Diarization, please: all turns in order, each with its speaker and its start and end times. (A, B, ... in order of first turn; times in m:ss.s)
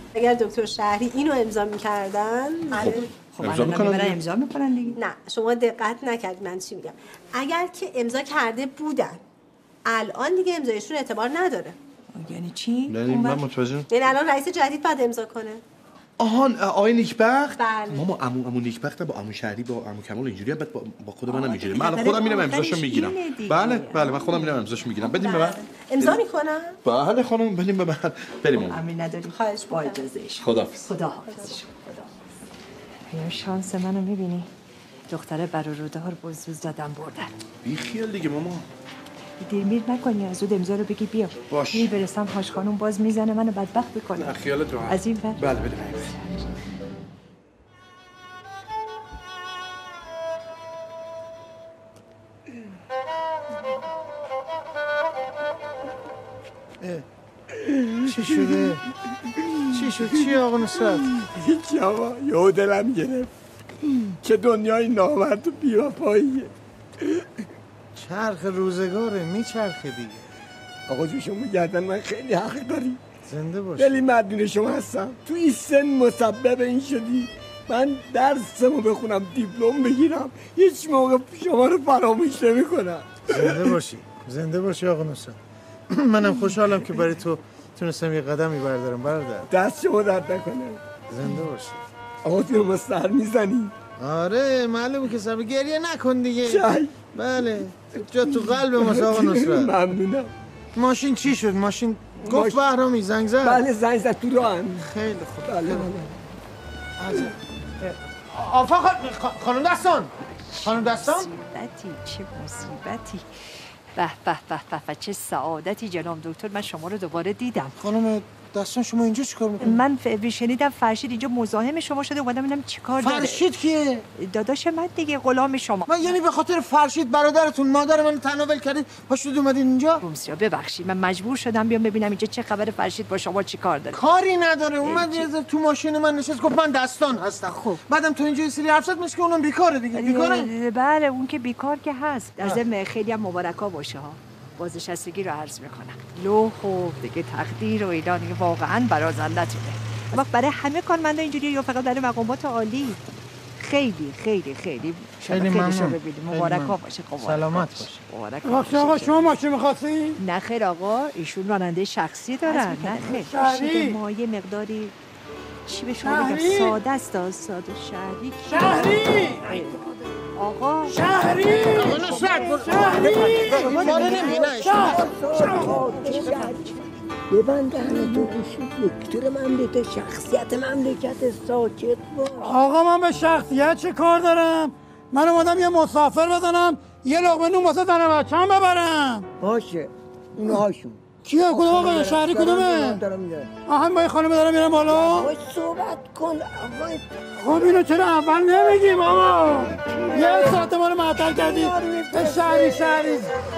0:00.2-0:03.1 A
0:02.7-0:04.2 B
0:03.3-0:05.0 C
0:05.0-0:09.2 A
0:09.9-0:11.8 A
0:12.1-0:13.5 C
0:12.9-0:13.9 B
0:13.9-0:15.6 A
0:16.2-0:26.2 B
0:17.5-0:18.0 A
0:21.3-0:24.6 C
0:25.0-0:26.8 A
0:26.8-0:28.8 B
0:28.6-0:32.1 C
0:29.4-0:30.0 A
0:30.4-0:30.8 B
0:33.1-0:34.5 C
0:35.1-0:37.3 C
0:37.6-0:38.6 B
0:39.4-0:45.5 C
0:41.5-0:42.0 B
0:44.2-0:46.2 B
0:57.5-0:58.8 D
0:58.0-0:58.8 E
0:59.5-1:03.3 D
0:59.7-1:01.1 E
1:03.9-1:06.5 D
1:07.9-1:10.2 E
1:10.9-1:13.0 D
1:13.3-1:14.0 E
1:13.8-1:23.8 D
1:23.3-1:25.4 E
1:25.9-1:29.5 E
1:29.5-1:30.8 D
1:31.1-1:31.8 E
1:32.2-1:33.7 D
1:34.0-1:39.8 E
1:36.4-1:36.9 D
1:38.0-1:40.3 D
1:40.7-1:43.7 E
1:42.2-1:42.6 D
1:43.4-1:44.9 D
1:44.8-1:45.9 E
1:45.4-1:46.1 D
1:47.0-1:51.3 E
1:50.5-1:53.4 C
1:54.0-1:57.8 C
1:57.8-1:59.8 E
1:59.6-2:03.4 C
2:03.0-2:04.0 E
2:04.2-2:06.2 C
2:05.9-2:10.0 E
2:10.0-2:14.0 C
2:13.9-2:20.5 E
2:14.8-2:15.3 C
2:19.9-2:33.0 C
2:33.6-2:39.4 C
2:35.2-2:37.9 E
2:38.5-2:40.1 F
2:40.2-2:44.9 C
2:43.2-2:43.9 F
2:45.6-2:49.8 C
2:46.2-2:46.6 F
2:48.6-2:49.3 F
2:50.4-2:51.1 C
2:51.0-2:55.8 F
2:51.2-3:02.6 G
2:51.8-2:55.1 E
3:02.4-3:09.2 F
3:09.4-3:13.5 G
3:11.2-3:13.0 F
3:13.7-3:15.3 F
3:14.7-3:17.8 G
3:17.4-3:23.2 F
3:18.3-3:23.3 G